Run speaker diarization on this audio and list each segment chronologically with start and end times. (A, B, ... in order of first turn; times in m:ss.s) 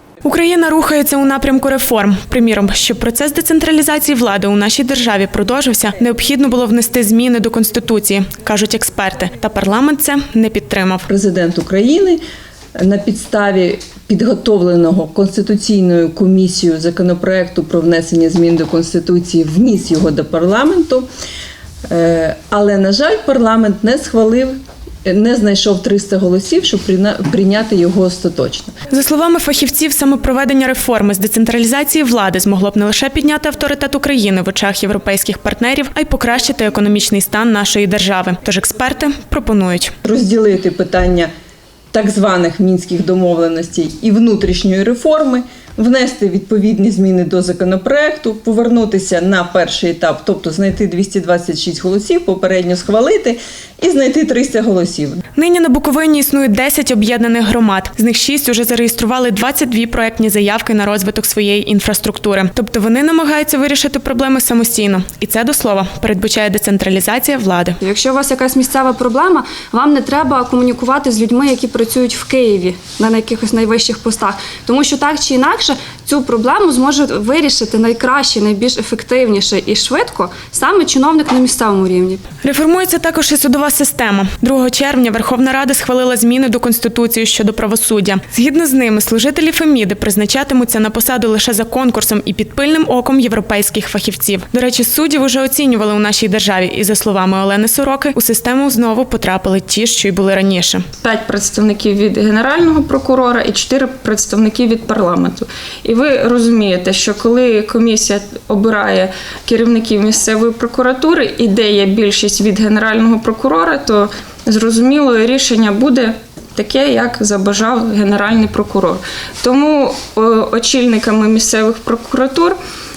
0:00.2-0:11.0 A
0:11.1-0:12.2 B
0:12.8-0:21.1 B
0:21.9-0:28.7 B
0:28.9-0:39.9 A
0:40.0-0:41.3 B
0:41.9-0:55.2 B
0:55.4-1:07.8 A
1:07.8-1:22.2 C
1:22.4-1:40.8 A
1:41.0-2:02.6 D